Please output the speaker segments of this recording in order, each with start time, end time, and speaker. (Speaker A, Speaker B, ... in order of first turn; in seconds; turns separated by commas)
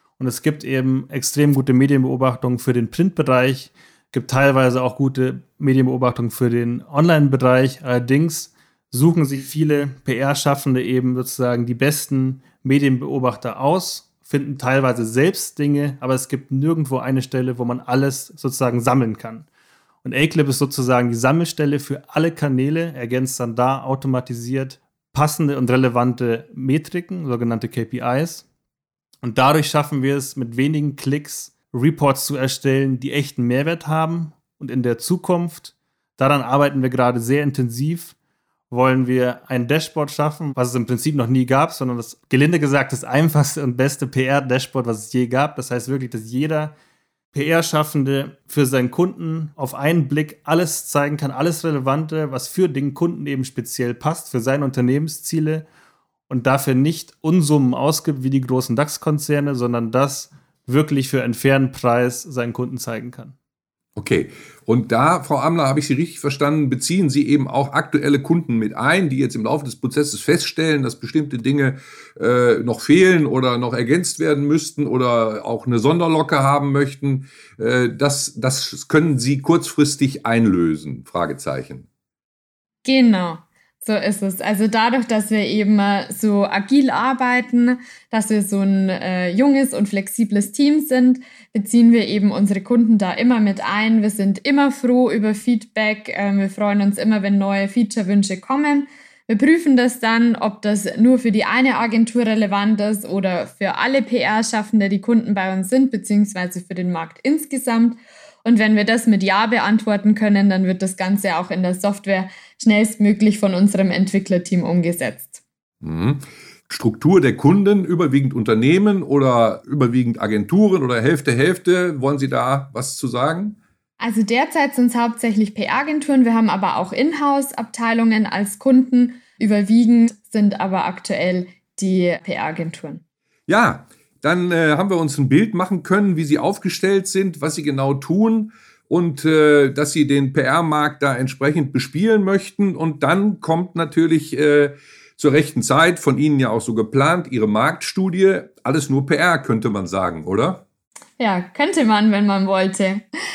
Speaker A: 0.2-19.5, Speaker A: 20.0-28.4, Speaker A: 29.2-38.1, Speaker A: 38.7-46.7, Speaker A: 47.3-55.6, Speaker A: 56.3-63.3, Speaker B: 64.0-81.9, Speaker C: 82.8-115.4, Speaker B: 115.8-123.6, Speaker C: 124.0-133.0, Speaker B: 133.5-150.6, Speaker C: 151.2-153.0